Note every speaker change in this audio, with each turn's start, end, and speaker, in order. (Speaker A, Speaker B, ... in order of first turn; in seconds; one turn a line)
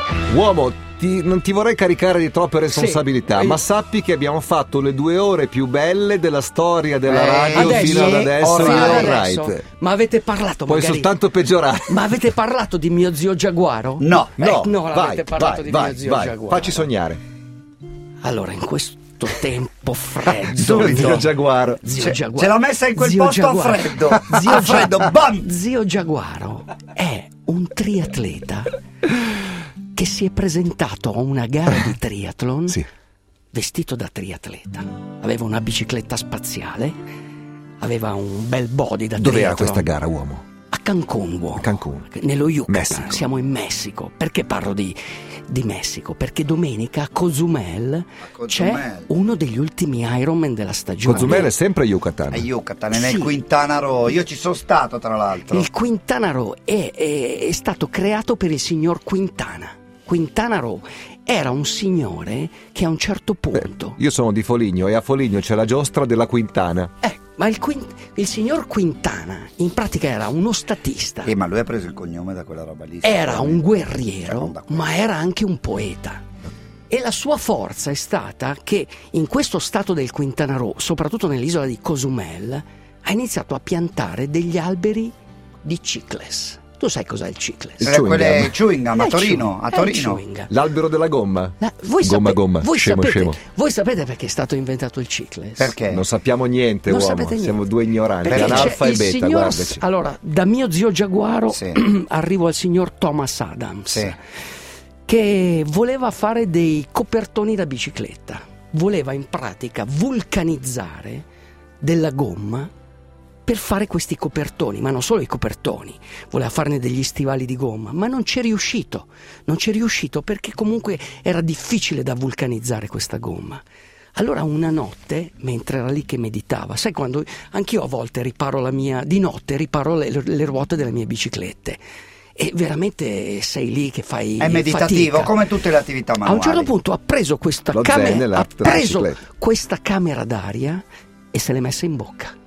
Speaker A: 0.3-9.6
Speaker B: 2.7-3.6
Speaker C: 7.1-9.2
Speaker B: 7.5-11.1
Speaker A: 10.7-12.2
Speaker B: 11.9-16.9
Speaker C: 14.0-14.4
Speaker A: 14.4-17.2
Speaker B: 18.2-28.7
Speaker A: 20.4-21.8
Speaker C: 20.6-21.3
Speaker C: 21.9-25.5
Speaker B: 29.9-32.8
Speaker B: 33.5-37.0
Speaker B: 37.8-39.9
Speaker A: 39.2-40.4
Speaker B: 40.7-51.5
Speaker A: 41.6-42.1
Speaker A: 42.7-43.2
Speaker C: 48.2-49.1
Speaker A: 51.0-52.5
Speaker C: 52.3-55.7
Speaker B: 52.9-53.3
Speaker B: 55.5-64.0
Speaker A: 63.5-66.9
Speaker B: 67.0-71.3
Speaker C: 71.2-74.9
Speaker B: 73.0-76.2
Speaker B: 76.9-88.0
Speaker C: 87.8-90.2
Speaker A: 87.8-88.5
Speaker B: 88.9-90.5
Speaker A: 90.5-93.4
Speaker B: 91.6-95.7
Speaker C: 95.6-96.0
Speaker A: 95.9-99.8
Speaker B: 96.8-97.6
Speaker B: 98.2-104.2
Speaker C: 98.3-98.8
Speaker C: 101.5-101.8
Speaker C: 103.9-104.1
Speaker B: 105.1-111.2
Speaker B: 111.8-112.7
Speaker B: 113.5-123.6
Speaker B: 124.2-131.8
Speaker B: 132.3-135.3
Speaker C: 134.4-136.7
Speaker B: 136.2-142.3
Speaker A: 137.7-139.2